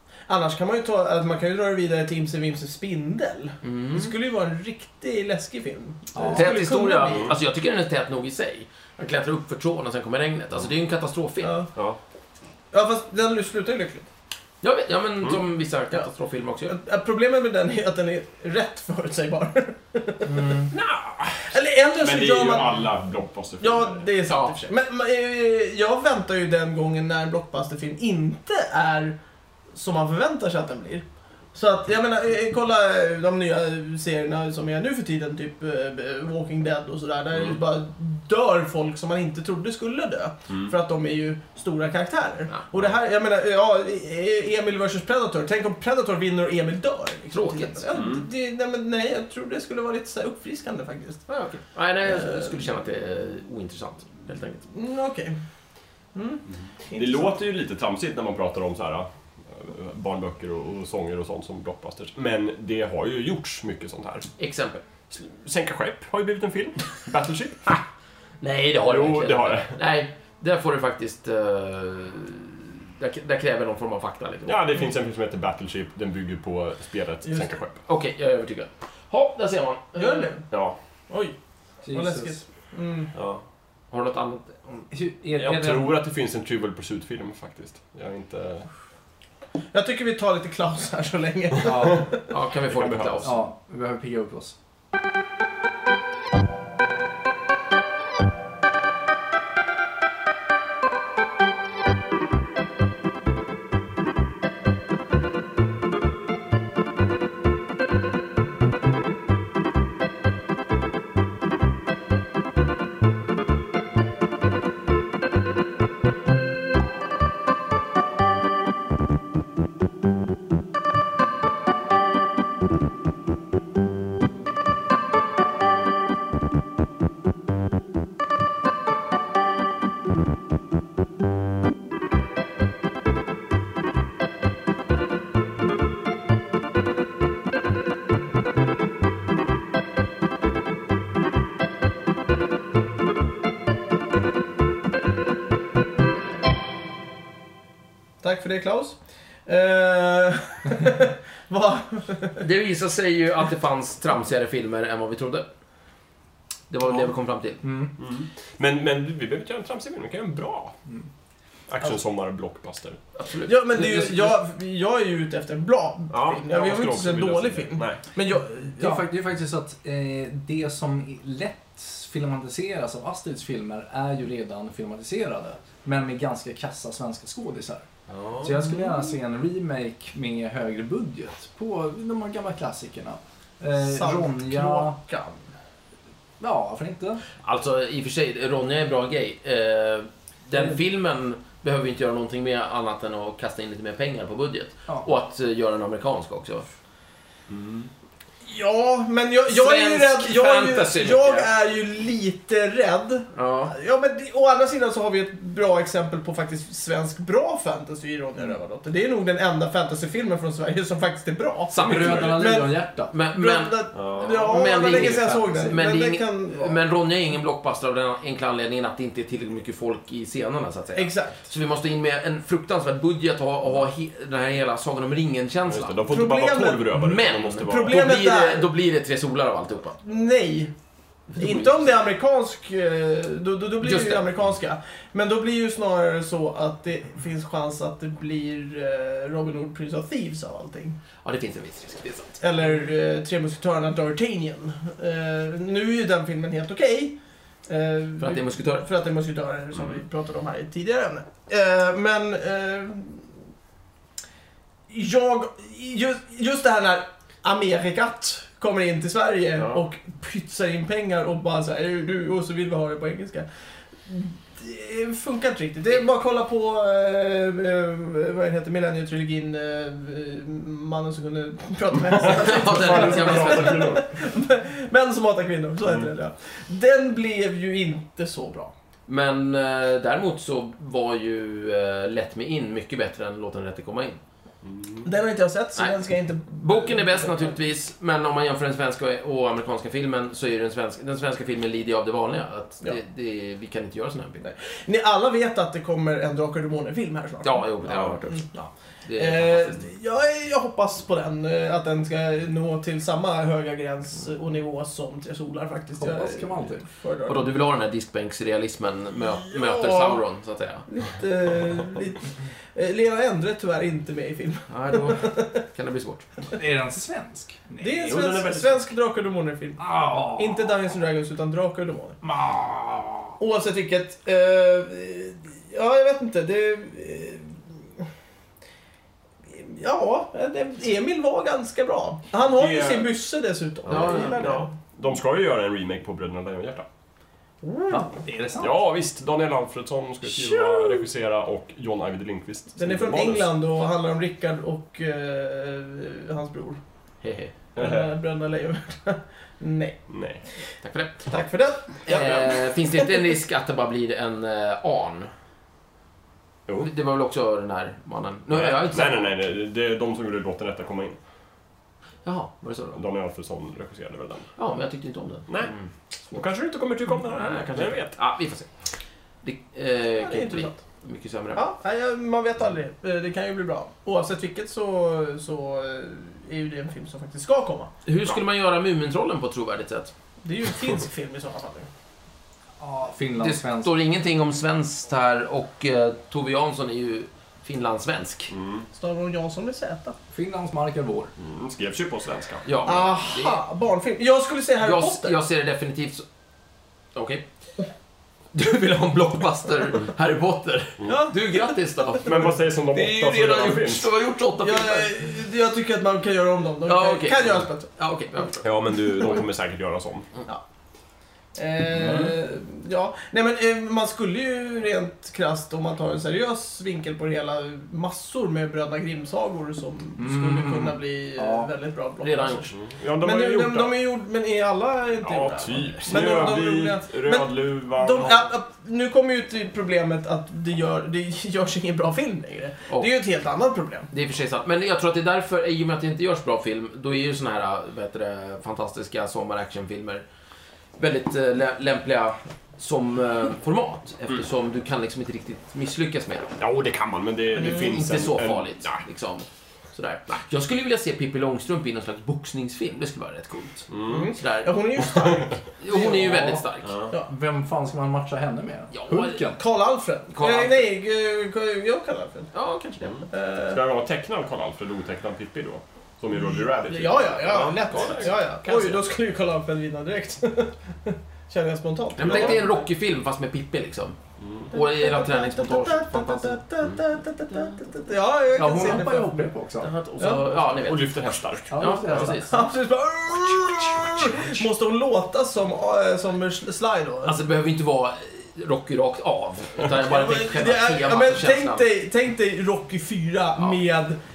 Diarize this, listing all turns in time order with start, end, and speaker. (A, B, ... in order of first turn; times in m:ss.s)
0:00.3-0:07.3 A
0:03.6-0:04.1 B
0:06.1-0:06.6 C
0:06.4-0:11.6 B
0:07.0-0:07.4 D
0:11.4-0:11.7 A
0:12.7-0:14.1 A
0:14.6-0:16.8 B
0:16.7-0:20.6 A
0:20.3-0:20.7 C
0:21.5-0:22.8 A
0:22.0-0:24.1 D
0:23.6-0:29.2 A
0:24.3-0:24.6 B
0:29.7-0:51.4 A
0:47.3-0:47.9 B
0:47.9-0:48.3 D
0:51.3-0:54.6 B
0:52.0-0:52.6 A
0:54.7-0:55.4 A
0:56.2-0:57.4 A
0:56.9-1:04.3 D
1:04.4-1:04.8 B
1:05.1-1:07.8 D
1:08.4-1:14.6 B
1:08.8-1:09.8 D
1:14.5-1:17.8 D
1:17.3-1:17.5 A
1:17.9-1:20.3 B
1:20.0-1:20.5 A
1:20.5-1:20.8 D
1:21.1-1:21.4 A
1:21.8-1:22.4 C
1:21.9-1:23.1 A
1:23.2-1:23.4 D
1:23.9-1:24.9 B
1:24.9-1:26.0 C
1:25.4-1:28.7 D
1:29.7-1:32.2 A
1:31.6-1:32.0 C
1:32.3-1:33.4 B
1:32.7-1:33.3 D
1:33.2-1:34.6 C
2:28.2-2:32.4 A
2:32.4-2:35.5 B
2:36.7-2:37.6 B
2:37.6-2:37.9 C
2:38.0-2:40.7 D
2:41.7-2:43.0 D
2:43.2-2:44.3 B
2:43.4-2:49.1 A
2:46.1-2:48.0 D
2:48.8-2:57.8 C
2:58.1-2:58.5 B
2:58.4-3:05.0 C
3:03.8-3:05.4 A
3:06.4-3:07.2 C
3:07.4-3:16.7 B
3:17.5-3:17.9 D
3:18.5-3:36.8 A
3:19.5-3:21.5 B
3:23.3-3:23.7 B
3:31.7-3:46.0 B
3:31.8-3:33.1 C
3:33.9-3:34.6 D
3:34.7-3:35.8 C
3:41.0-3:41.5 A
3:45.7-3:48.0 D
3:46.1-3:46.9 A
3:46.9-3:50.0 B
3:47.7-3:48.7 A
3:50.0-3:50.7 A
3:51.4-3:51.9 B
3:51.4-4:01.0 A
3:53.8-3:54.3 B
4:01.2-4:02.4 B
4:02.4-4:07.2 A
4:07.7-4:13.3 A
4:08.2-4:08.9 B
4:14.9-4:23.5 A
4:24.1-4:38.7 A
4:32.1-4:34.1 D
4:32.2-4:33.9 B
4:39.1-4:44.2 B
4:44.6-4:45.1 D
4:45.0-4:47.5 A
4:45.8-4:54.5 B
4:54.4-4:57.7 A
4:57.4-4:58.4 B
4:57.9-4:58.2 D
4:58.3-5:07.6 A
4:59.0-4:59.8 B
5:06.0-5:06.8 C
5:07.3-5:10.9 B
5:09.4-5:10.2 A
5:10.9-5:15.6 A
5:14.7-5:16.3 B
5:16.5-5:18.4 C
5:17.8-5:22.2 A
5:18.1-5:18.8 D
5:19.8-5:20.7 C
5:22.2-5:23.4 C
5:23.4-5:28.0 A
5:29.5-5:34.7 A
5:32.4-5:33.1 D
5:33.9-5:36.9 D
5:33.9-5:34.6 B
5:37.6-5:38.2 A
5:37.9-5:38.8 C
5:38.6-5:43.5 D
5:40.3-5:41.0 A
5:42.8-5:46.8 A
5:47.2-5:47.5 B
5:47.8-5:48.0 D
5:47.8-5:50.0 A
5:50.1-5:50.4 D
5:50.8-5:51.4 B
5:51.3-5:53.1 A
5:52.0-5:55.3 B
5:56.8-5:59.3 B
5:58.5-6:01.2 D
6:02.2-6:03.0 B
6:02.9-6:04.5 D
6:04.6-6:06.4 B
6:05.5-6:05.7 D
6:06.3-6:08.1 D
6:07.3-6:08.9 B
6:09.4-6:11.6 B
6:10.2-6:10.8 A
6:11.6-6:17.9 A
6:18.1-6:20.1 B
6:20.4-6:21.9 A
6:22.8-6:23.9 C
6:23.4-6:28.5 B
6:28.5-6:28.9 D
6:28.9-6:30.2 A
6:30.3-6:31.3 C
6:31.4-6:32.6 D
6:32.6-6:33.6 B
6:32.8-6:35.4 A
6:34.8-6:36.2 B
6:37.2-6:37.4 B
6:38.5-6:45.2 B
6:41.0-6:41.4 A
6:42.2-6:44.1 D
6:44.6-6:47.9 A
6:46.8-6:49.0 B
6:48.6-6:50.3 D
6:51.6-7:14.1 A
6:52.0-6:52.3 C
7:00.2-7:01.7 C
7:02.2-7:02.7 B
7:02.7-7:03.9 D
7:05.2-7:08.5 D
7:14.1-7:20.2 B
7:21.0-7:26.5 B
7:26.6-7:29.0 D
7:27.6-7:27.9 A
7:27.7-7:35.1 B
7:33.9-7:34.3 D
7:34.1-7:36.2 A
7:35.8-7:37.1 B
7:35.9-7:36.6 C
7:37.2-7:39.6 C
7:38.9-7:39.4 B
7:39.6-7:42.5 A
7:40.3-7:40.9 B
7:42.5-7:43.3 B
7:43.0-7:48.3 D
7:43.3-7:43.8 A
7:46.4-7:52.8 A
7:47.5-7:49.0 B
7:52.2-7:54.2 B
7:52.2-7:52.6 D
7:54.4-7:54.7 D
7:54.7-7:56.6 B
7:54.7-7:59.5 A
7:58.6-7:59.9 C
7:59.8-8:02.7 B
8:00.2-8:00.4 A
8:00.6-8:02.3 D
8:01.7-8:02.5 C
8:02.5-8:07.4 A
8:03.7-8:04.4 B
8:04.2-8:04.4 D
8:07.2-8:11.8 B
8:09.9-8:14.2 A